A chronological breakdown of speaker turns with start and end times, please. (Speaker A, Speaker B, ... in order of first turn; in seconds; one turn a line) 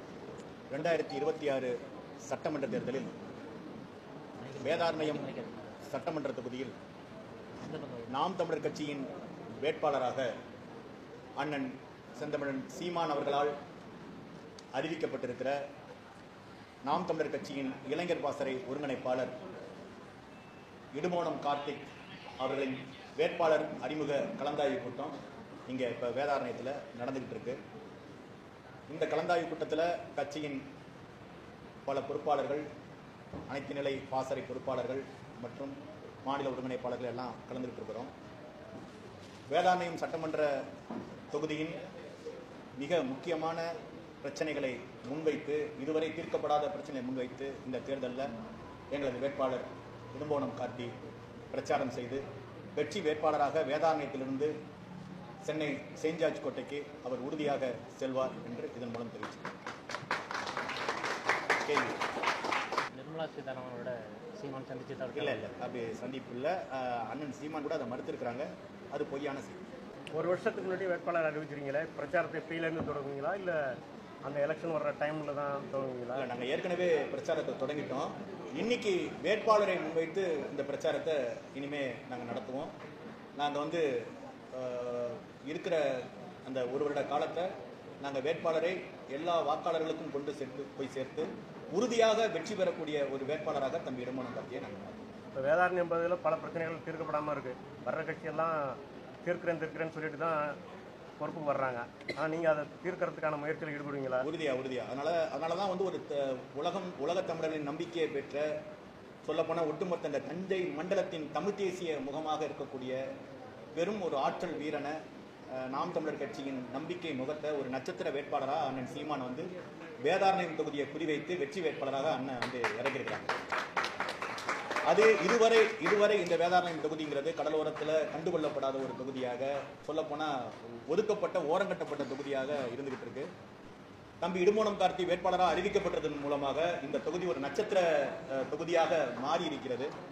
Speaker A: 0.7-1.7
Speaker A: 2.2-3.1
Speaker B: 4.4-5.8
Speaker A: 4.6-5.3
Speaker A: 5.8-6.7
Speaker B: 7.6-8.2
Speaker A: 8.1-9.1
Speaker A: 9.6-10.3
Speaker A: 11.4-13.5
Speaker A: 14.7-15.6
Speaker A: 16.8-19.4
Speaker A: 20.9-21.9
Speaker A: 22.4-25.1
Speaker A: 25.7-27.6
Speaker A: 28.9-30.6
Speaker A: 31.9-32.6
Speaker A: 33.5-38.1
Speaker A: 39.5-40.5
Speaker A: 41.3-41.8
Speaker A: 42.8-43.6
Speaker A: 44.2-48.3
Speaker A: 48.9-50.9
Speaker A: 51.5-52.2
Speaker A: 52.8-54.5
Speaker A: 55.4-59.4
Speaker A: 61.6-62.0
Speaker B: 62.9-65.6
Speaker A: 65.1-69.6
Speaker C: 70.1-76.2
Speaker A: 76.1-82.7
Speaker A: 83.4-87.5
Speaker A: 88.0-95.0
Speaker C: 95.3-100.5
Speaker C: 101.2-104.3
Speaker A: 104.2-108.4
Speaker A: 109.2-113.0
Speaker A: 113.8-115.0
Speaker A: 115.6-119.5
Speaker A: 120.0-123.3
Speaker A: 124.9-133.3
Speaker A: 134.2-139.9